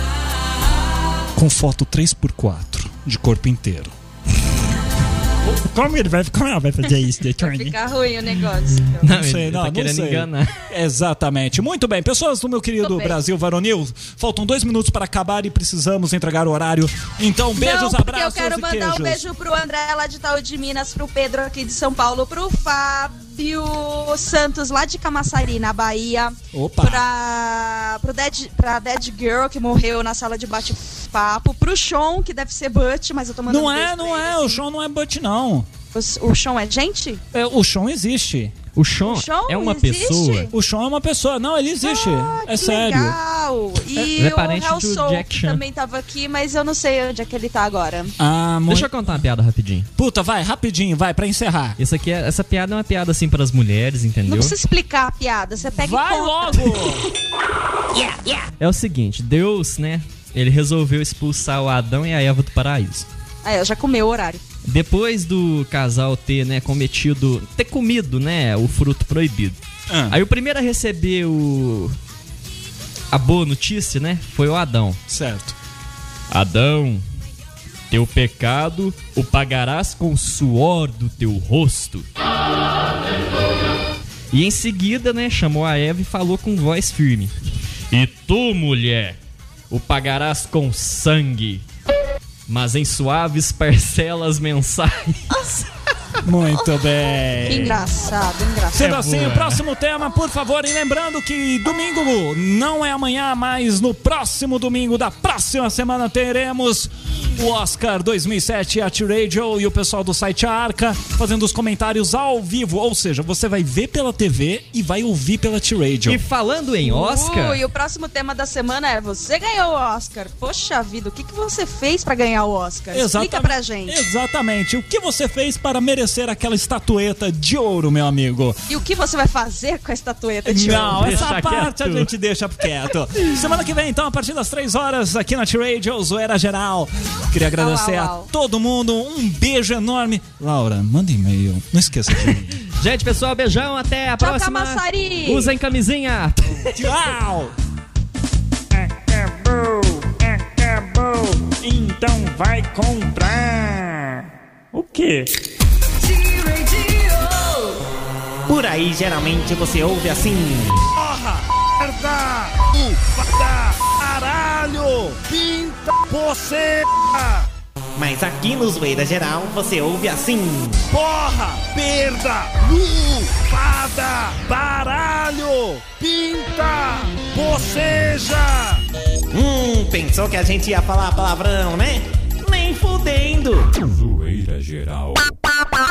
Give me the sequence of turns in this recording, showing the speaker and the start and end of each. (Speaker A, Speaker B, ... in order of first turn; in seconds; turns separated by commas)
Speaker A: 1.3-3.9, Speaker B: 5.5-7.8, Speaker C: 7.4-9.1, Speaker D: 9.0-10.5, Speaker A: 9.0-19.2, Speaker C: 12.8-13.2, Speaker C: 17.6-34.6, Speaker A: 26.5-27.0, Speaker A: 33.5-35.7, Speaker C: 35.9-37.2, Speaker A: 37.3-38.5, Speaker D: 38.7-40.5, Speaker C: 39.0-40.5, Speaker A: 40.5-43.2, Speaker C: 41.8-48.1, Speaker D: 44.0-45.6, Speaker A: 48.2-48.9, Speaker D: 48.7-49.9, Speaker A: 50.0-51.8, Speaker D: 51.8-54.5, Speaker C: 54.2-56.9, Speaker A: 55.7-57.1, Speaker C: 57.9-58.5, Speaker D: 58.6-63.1, Speaker C: 63.4-64.4, Speaker D: 64.6-72.0, Speaker A: 69.9-70.2, Speaker D: 73.1-75.0, Speaker A: 75.1-75.5, Speaker D: 76.3-77.0, Speaker D: 77.9-82.1, Speaker D: 84.3-87.3, Speaker D: 87.9-89.2, Speaker D: 89.7-91.6, Speaker D: 92.5-95.3, Speaker C: 95.3-95.7, Speaker A: 96.2-97.8, Speaker C: 97.5-99.2, Speaker A: 98.7-116.2, Speaker D: 98.8-99.6, Speaker D: 116.1-117.6, Speaker C: 116.8-124.0, Speaker A: 122.9-128.6, Speaker C: 128.7-131.3, Speaker A: 130.4-142.6, Speaker D: 130.7-132.1, Speaker C: 137.6-138.3, Speaker D: 142.6-146.7, Speaker C: 144.2-145.5, Speaker A: 146.7-147.5, Speaker B: 148.7-155.3, Speaker E: 158.5-160.9, Speaker B: 161.0-167.5, Speaker E: 167.9-170.9, Speaker B: 170.9-178.8, Speaker E: 179.3-183.8, Speaker A: 184.0-185.1